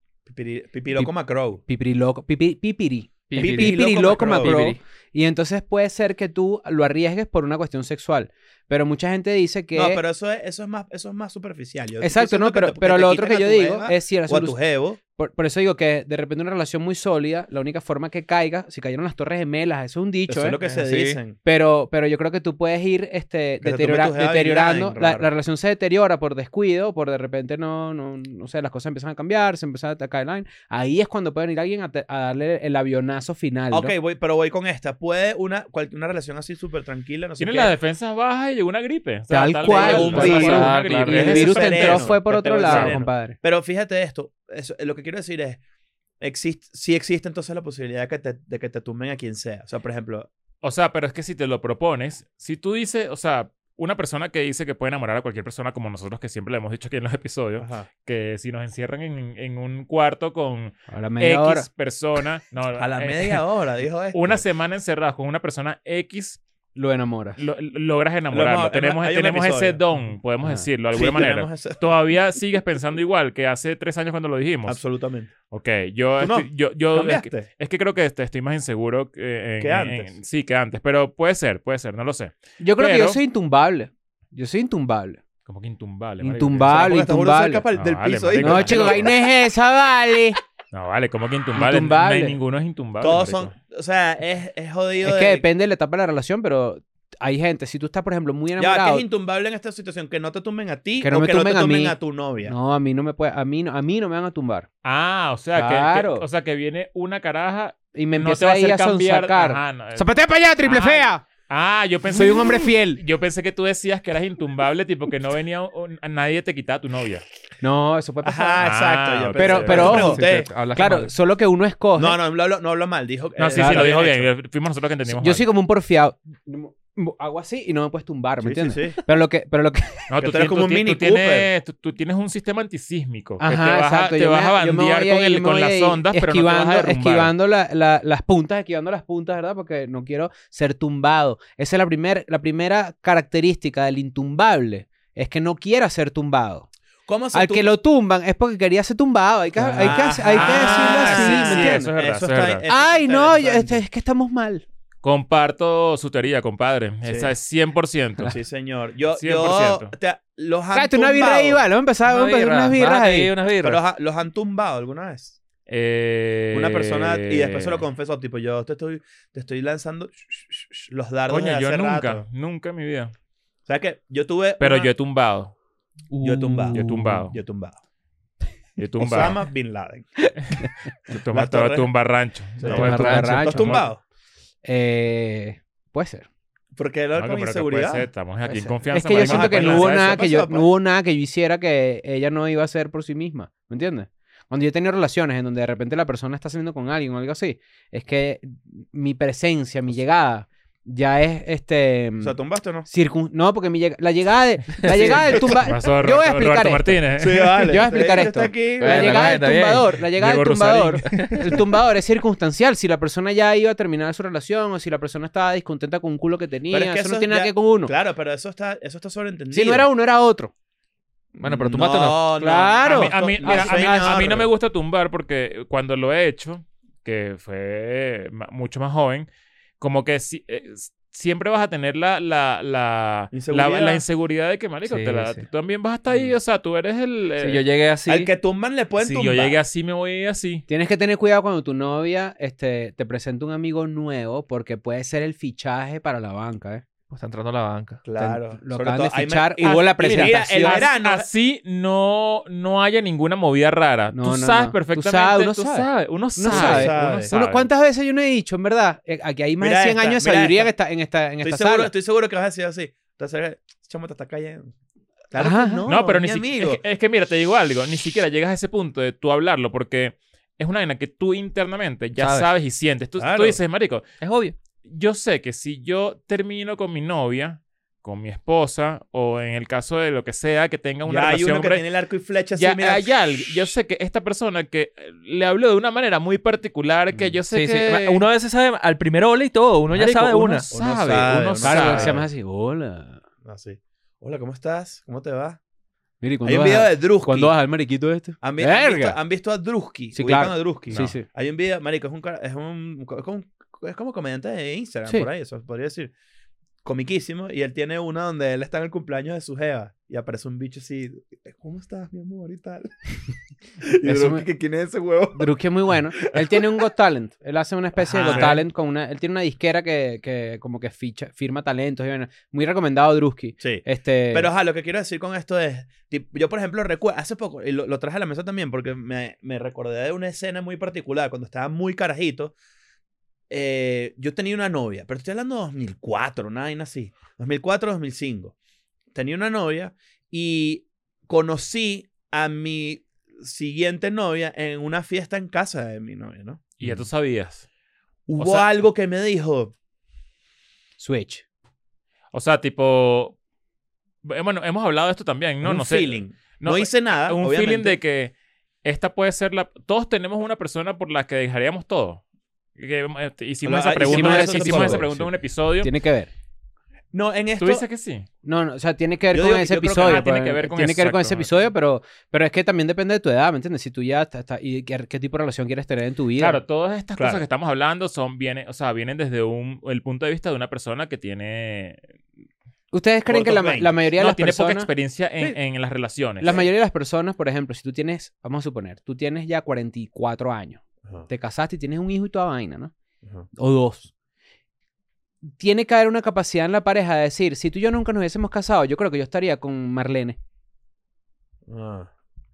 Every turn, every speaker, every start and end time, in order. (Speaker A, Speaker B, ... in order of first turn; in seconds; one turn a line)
Speaker A: 0.2-1.6
Speaker B: 1.7-10.0
Speaker C: 3.3-4.8
Speaker A: 3.4-4.6
Speaker A: 9.7-15.0
Speaker B: 12.0-14.6
Speaker B: 15.2-20.6
Speaker A: 20.3-21.4
Speaker C: 20.6-21.2
Speaker B: 21.4-33.9
Speaker A: 23.6-25.3
Speaker A: 33.7-37.7
Speaker D: 37.4-43.0
Speaker B: 39.3-43.4
Speaker A: 39.6-45.6
Speaker C: 39.7-41.5
Speaker A: 46.2-50.3
Speaker D: 50.6-63.4
Speaker A: 57.6-57.9
Speaker B: 60.9-61.6
Speaker A: 62.8-64.4
Speaker D: 64.1-66.4
Speaker B: 66.7-67.4
Speaker D: 67.4-74.8
Speaker A: 68.3-69.8
Speaker A: 70.9-71.9
Speaker A: 74.7-75.3
Speaker D: 75.5-83.2
Speaker A: 76.2-77.5
Speaker A: 79.6-80.1
Speaker B: 82.6-85.2
Speaker D: 85.5-87.0
Speaker B: 86.2-87.6
Speaker A: 86.6-89.1
Speaker D: 87.7-89.2
Speaker B: 88.4-90.4
Speaker D: 90.7-93.5
Speaker B: 91.5-92.4
Speaker A: 93.0-95.4
Speaker B: 95.0-99.0
Speaker A: 98.6-102.5
Speaker B: 101.0-104.7
Speaker D: 104.8-110.1
Speaker B: 105.5-106.2
Speaker B: 107.9-111.2
Speaker D: 110.6-117.2
Speaker B: 112.1-113.0
Speaker B: 117.6-118.7
Speaker A: 118.2-120.5
Speaker D: 118.6-120.2
Speaker B: 119.3-122.2
Speaker C: 119.7-121.1
Speaker A: 122.0-124.3
Speaker D: 123.4-125.5
Speaker B: 123.5-124.0
Speaker B: 125.1-130.1
Speaker A: 128.4-129.0
Speaker D: 130.1-137.3
Speaker A: 130.2-131.5
Speaker B: 133.4-146.7
Speaker A: 147.1-147.7
Speaker B: 147.3-151.9
Speaker A: 149.6-153.8
Speaker D: 149.8-152.6
Speaker B: 152.7-154.6
Speaker D: 155.0-158.3
Speaker A: 157.0-157.3
Speaker A: 158.2-161.6
Speaker D: 159.1-159.9
Speaker B: 160.7-163.3
Speaker C: 162.1-163.8
Speaker A: 163.6-165.3
Speaker D: 165.7-167.8
Speaker A: 166.5-172.2
Speaker D: 171.3-173.1
Speaker A: 173.7-174.9
Speaker D: 174.6-175.5
Speaker C: 176.1-177.2
Speaker A: 176.2-177.8
Speaker D: 176.7-177.4
Speaker D: 178.8-179.4
Speaker A: 179.0-180.3
Speaker D: 180.5-183.8
Speaker A: 181.3-181.9
Speaker A: 182.6-184.0
Speaker B: 182.7-183.9
Speaker B: 184.6-186.3
Speaker A: 186.8-188.1
Speaker D: 187.2-190.2
Speaker B: 188.9-207.0
Speaker A: 189.1-190.7
Speaker A: 202.2-202.9
Speaker C: 204.8-205.2
Speaker A: 204.9-205.6
Speaker D: 205.4-207.8
Speaker A: 207.2-209.4
Speaker B: 207.6-217.9
Speaker C: 208.8-209.9
Speaker D: 210.2-211.3
Speaker C: 211.1-211.5
Speaker A: 216.7-219.9
Speaker B: 219.5-220.5
Speaker C: 221.3-222.2
Speaker A: 221.4-224.5
Speaker B: 222.4-224.4
Speaker D: 222.8-229.3
Speaker D: 229.8-237.6
Speaker A: 233.3-234.0
Speaker C: 234.8-235.4
Speaker C: 237.4-238.3
Speaker A: 238.1-239.6
Speaker D: 239.0-240.6
Speaker B: 240.7-246.8
Speaker C: 247.1-248.0
Speaker A: 248.0-251.3
Speaker B: 248.2-250.8
Speaker D: 250.0-257.7
Speaker B: 254.1-261.9
Speaker A: 256.5-257.3
Speaker A: 259.6-260.7
Speaker A: 261.4-264.7
Speaker A: 265.3-266.8
Speaker B: 265.4-265.9
Speaker D: 265.9-274.0
Speaker C: 272.2-272.5
Speaker A: 273.2-273.6
Speaker C: 274.2-274.5
Speaker D: 274.8-281.8
Speaker A: 281.0-283.7
Speaker D: 282.6-288.2
Speaker C: 287.5-290.6
Speaker D: 289.9-292.2
Speaker A: 290.7-292.3
Speaker B: 291.6-293.2
Speaker A: 293.4-295.6
Speaker B: 296.2-299.2
Speaker A: 296.4-297.5
Speaker A: 298.4-306.1
Speaker B: 300.1-301.2
Speaker D: 300.9-301.2
Speaker A: 306.8-313.1
Speaker A: 313.8-315.5
Speaker B: 314.0-314.4
Speaker B: 315.3-324.5
Speaker A: 316.1-316.6
Speaker A: 318.0-318.6
Speaker D: 318.3-318.6
Speaker A: 323.6-332.5
Speaker A: 333.5-338.5
Speaker A: 339.1-347.0
Speaker D: 346.8-347.6
Speaker A: 348.3-349.7
Speaker D: 348.4-348.7
Speaker B: 351.0-351.4
Speaker D: 352.3-353.4
Speaker D: 354.2-358.3
Speaker A: 355.6-358.0
Speaker D: 358.8-362.2
Speaker D: 362.8-365.9
Speaker A: 363.6-365.3
Speaker B: 364.0-365.1
Speaker B: 365.8-366.3
Speaker A: 367.1-367.8
Speaker D: 367.6-368.3
Speaker B: 368.4-376.6
Speaker A: 369.3-370.3
Speaker D: 369.9-371.7
Speaker D: 376.4-382.0
Speaker A: 377.1-377.4
Speaker B: 382.9-384.9
Speaker A: 383.3-384.1
Speaker D: 384.2-386.6
Speaker B: 386.4-392.9
Speaker A: 386.4-386.7
Speaker B: 393.5-394.1
Speaker B: 395.4-400.4
Speaker A: 401.7-402.1